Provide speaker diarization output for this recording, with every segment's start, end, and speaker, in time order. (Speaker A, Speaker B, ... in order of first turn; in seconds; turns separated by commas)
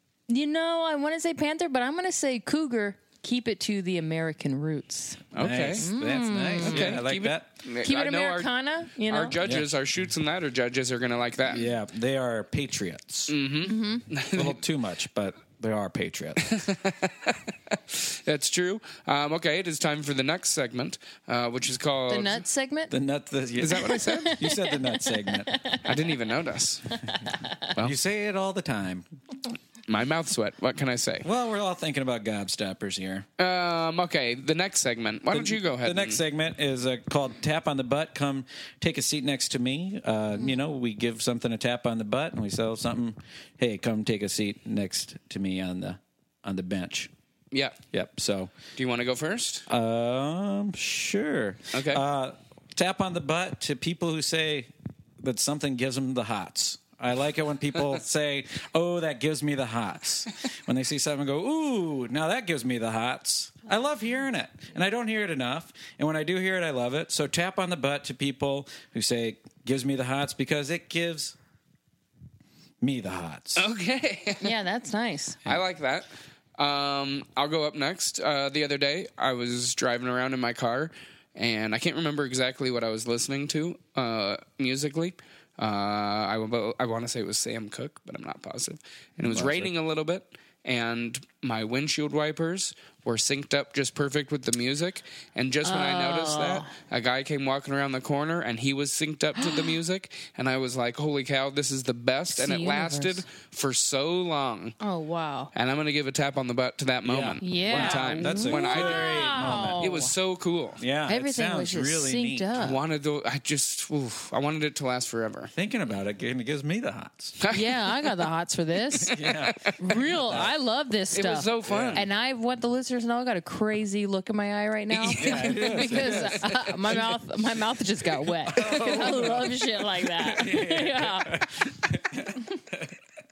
Speaker A: 0.3-7.0, Speaker B: 5.3-5.9, Speaker C: 5.4-7.5, Speaker B: 6.6-11.7, Speaker A: 7.8-9.4, Speaker C: 9.4-9.7, Speaker C: 11.5-13.3, Speaker B: 13.3-14.6, Speaker A: 13.7-14.1, Speaker C: 14.3-16.5, Speaker B: 16.4-22.4, Speaker A: 22.1-22.9, Speaker C: 22.9-25.6, Speaker B: 23.6-24.4, Speaker A: 23.8-25.9, Speaker B: 25.8-27.0, Speaker A: 27.1-27.5, Speaker C: 27.8-29.1, Speaker B: 29.9-31.3, Speaker C: 31.2-33.3, Speaker B: 33.4-36.2, Speaker C: 35.3-47.1, Speaker B: 47.5-47.8, Speaker C: 47.9-48.5, Speaker B: 48.8-49.7, Speaker C: 49.7-71.3, Speaker B: 51.7-52.0, Speaker C: 72.8-73.7, Speaker B: 73.6-74.6, Speaker A: 74.4-75.4, Speaker B: 75.5-104.8, Speaker C: 89.2-89.7, Speaker A: 95.6-96.7, Speaker A: 99.4-99.8, Speaker A: 102.3-103.2, Speaker A: 104.8-105.5, Speaker B: 105.5-110.8, Speaker C: 107.0-109.9, Speaker A: 107.4-110.1, Speaker C: 110.8-112.7, Speaker A: 111.1-112.8, Speaker B: 112.6-115.5, Speaker C: 115.5-117.4, Speaker B: 117.4-118.1, Speaker A: 117.5-119.2, Speaker C: 119.0-120.5, Speaker B: 119.3-119.8, Speaker A: 119.8-131.5, Speaker B: 121.1-122.0, Speaker C: 121.7-122.0, Speaker B: 124.9-127.0, Speaker C: 125.2-127.0, Speaker B: 128.5-129.5, Speaker C: 128.5-129.6, Speaker C: 130.2-133.0